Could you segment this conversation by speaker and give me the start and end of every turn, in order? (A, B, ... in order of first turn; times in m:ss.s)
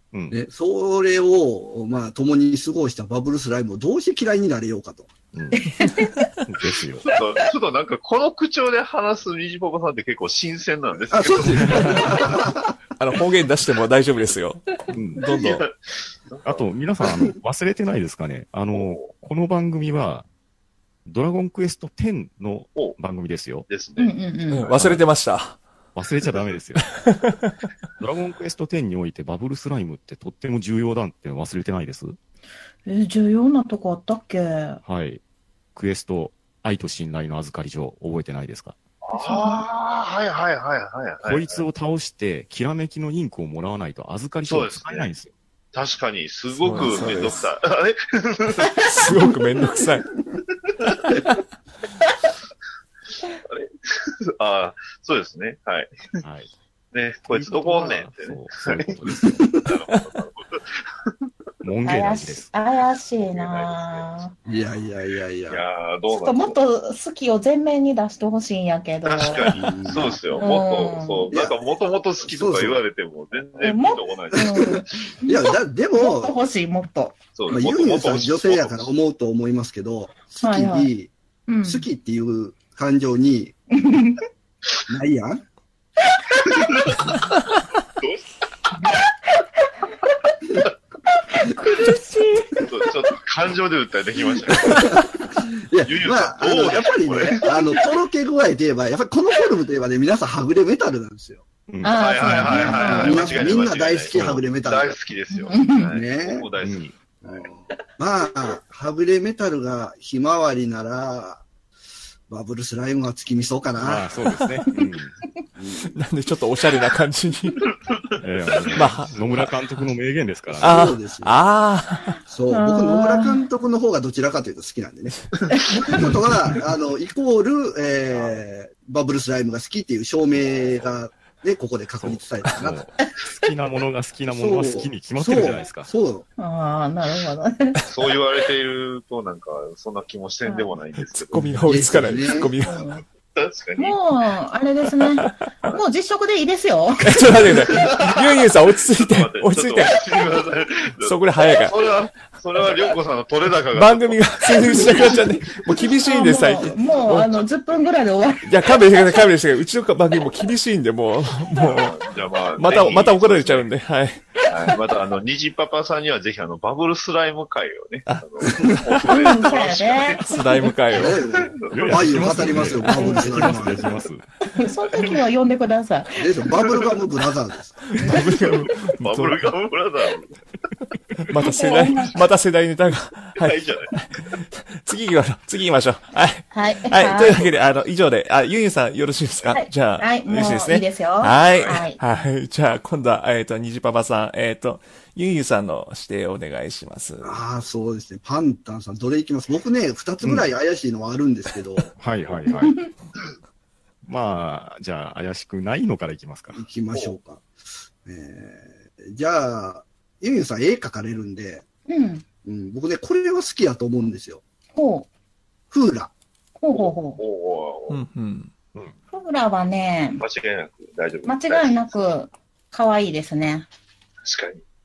0:00.1-0:00.4 A
0:00.3-0:05.1 B
0:05.3-0:05.6 A
0:05.5-0:07.1 C
0:06.4-0:07.0 A
0:07.0-0:12.1 D
0:11.1-0:12.7 B
0:11.4-0:12.4 A
0:13.0-0:14.6 E
0:14.9-0:15.2 A
0:15.2-0:15.6 E
0:15.3-0:16.6 D
0:16.4-0:20.2 A
0:18.7-0:19.1 D
0:21.0-0:23.7 A
0:23.7-0:24.1 D
0:24.0-0:24.7 C
0:24.5-0:25.6 E
0:24.7-0:25.0 A
0:25.9-0:26.8 A
0:27.0-0:27.7 E
0:28.0-0:32.2 A
0:32.8-0:34.8 C
0:34.8-0:35.2 A
0:35.7-0:38.8 A
0:39.0-0:41.6 D
0:39.1-0:39.6 C
0:41.2-0:45.3 A
0:44.4-0:45.1 D
0:45.7-0:48.7 D
0:46.6-0:47.4 E
0:46.7-0:47.3 A
0:48.8-0:50.1 E
0:53.4-0:56.2 D
0:56.2-0:56.5 A
0:56.9-0:59.0 D
0:57.2-0:59.5 A
0:59.2-0:59.4 B
0:59.5-1:01.1 D
1:01.6-1:02.5 A
1:01.8-1:04.3 C
1:03.3-1:04.0 D
1:04.4-1:05.6 B
1:05.5-1:06.6 D
1:06.1-1:11.3 C
1:09.0-1:15.0 D
1:09.5-1:10.1 B
1:12.2-1:12.8 B
1:13.6-1:17.2 C
1:14.3-1:16.4 B
1:17.4-1:18.9 D
1:17.5-1:21.1 B
1:20.4-1:20.9 C
1:21.5-1:21.8 C
1:21.6-1:23.6 B
1:23.7-1:24.2 C
1:24.9-1:25.4 B
1:26.4-1:26.7 C
1:26.5-1:27.1 D
1:28.0-1:28.3 D
1:31.3-1:32.9 C
1:32.6-1:35.0 D
1:34.6-1:41.4 B
1:35.8-1:37.5 D
1:41.7-1:43.0 A
1:41.8-1:43.5 C
1:42.0-1:47.5 D
1:42.4-1:45.0 B
1:44.1-1:44.4 A
1:45.3-1:45.9 C
1:45.9-1:46.5 B
1:46.6-1:46.9 A
1:47.2-1:51.4 B
1:52.3-1:54.0 B
1:53.8-1:55.1 A
1:55.6-1:56.0 B
1:55.9-1:57.6 E
1:57.9-1:58.9 D
1:58.2-2:00.8 A
1:58.7-1:59.4 E
2:00.6-2:01.4 B
2:00.6-2:02.1 E
2:02.3-2:12.8 B
2:02.5-2:03.4 C
2:08.1-2:08.4 D
2:10.6-2:10.9 D
2:12.0-2:15.9 A
2:14.3-2:16.3 B
2:16.4-2:17.9 C
2:17.9-2:21.5 D
2:20.4-2:20.7 C
2:21.1-2:22.8 E
2:21.6-2:22.5 B
2:22.6-2:23.0 C
2:23.3-2:24.0 D
2:23.8-2:27.3 C
2:27.0-2:30.0 E
2:27.8-2:28.1 D
2:28.9-2:35.2 D
2:31.0-2:31.8 E
2:33.7-2:37.3 E
2:36.0-2:39.2 C
2:36.8-2:37.8 D
2:38.5-2:42.0 E
2:41.6-2:43.7 D
2:42.6-2:44.2 E
2:44.5-2:50.2 D
2:48.1-2:49.0 E
2:49.1-2:50.4 C
2:50.2-2:51.2 E
2:50.9-2:53.9 B
2:51.0-2:52.2 D
2:51.7-2:54.2 A
2:52.5-2:52.9 E
2:53.0-2:53.5 C
2:54.5-2:56.2 C
2:54.8-2:55.2 D
2:56.1-2:57.8 B
2:57.9-2:59.4 E
2:58.8-3:00.4 D
3:01.3-3:17.4 E
3:01.4-3:02.1 C
3:03.4-3:03.9 D
3:06.5-3:07.4 C
3:09.5-3:12.0 C
3:11.5-3:11.8 D
3:17.2-3:21.9 B
3:22.0-3:22.8 A
3:22.5-3:22.9 C
3:24.0-3:26.6 A
3:26.5-3:27.5 B
3:28.0-3:31.6 B
3:31.9-3:32.2 C
3:32.4-3:34.4 B
3:34.8-3:35.1 C
3:35.7-3:36.1 B
3:36.6-3:37.2 C
3:36.7-3:38.0 D
3:37.9-3:38.5 E
3:39.1-3:40.2 C
3:40.2-3:41.9 D
3:41.2-3:43.7 C
3:44.2-3:44.6 D